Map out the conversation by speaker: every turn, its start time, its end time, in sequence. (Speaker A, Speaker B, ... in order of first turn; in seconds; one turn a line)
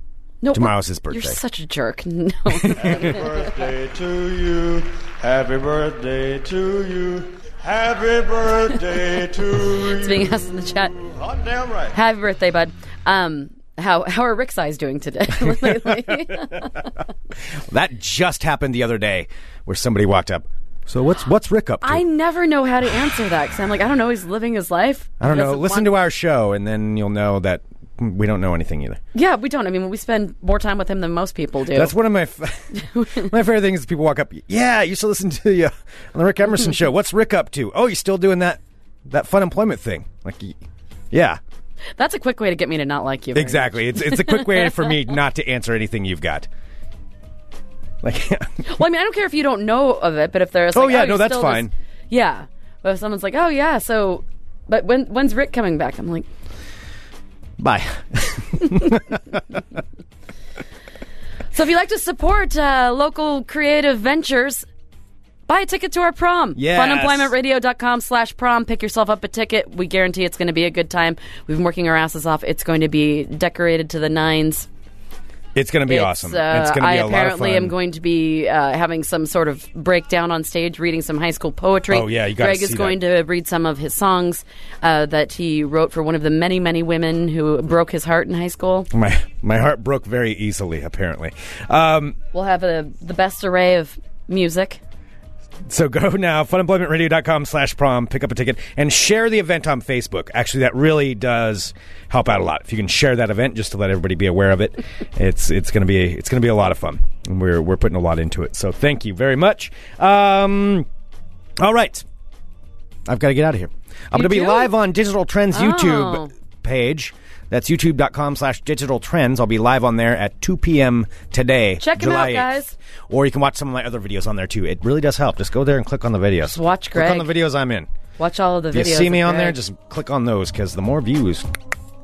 Speaker A: 0.4-3.5
Speaker B: 0.5-1.4
Speaker B: 2.5-3.1
Speaker C: 2.8-10.3
Speaker A: 9.7-10.9
Speaker C: 11.0-11.9
Speaker A: 11.9-16.9
Speaker B: 17.6-22.0
Speaker A: 21.8-25.9
Speaker B: 25.2-29.0
Speaker A: 29.1-31.9
Speaker B: 31.7-40.6
Speaker A: 32.7-33.3
Speaker B: 41.1-41.4
Speaker A: 42.0-44.9
Speaker B: 43.4-46.5
Speaker B: 48.0-48.8
Speaker A: 48.6-56.3
Speaker B: 50.7-51.7
Speaker B: 57.6-59.6
Speaker A: 61.5-64.7
Speaker A: 65.5-74.7
Speaker B: 66.6-67.3
Speaker B: 75.5-77.7
Speaker A: 75.9-88.9
Speaker B: 81.9-83.0
Speaker B: 88.9-92.2
Speaker A: 92.3-94.8
Speaker B: 95.7-110.9
Speaker B: 111.6-112.1
Speaker B: 113.1-122.5
Speaker A: 114.1-114.7
Speaker A: 115.5-116.3
Speaker A: 121.8-122.8
Speaker B: 123.1-127.9
Speaker A: 126.4-127.3
Speaker A: 128.2-129.6
Speaker B: 128.7-131.5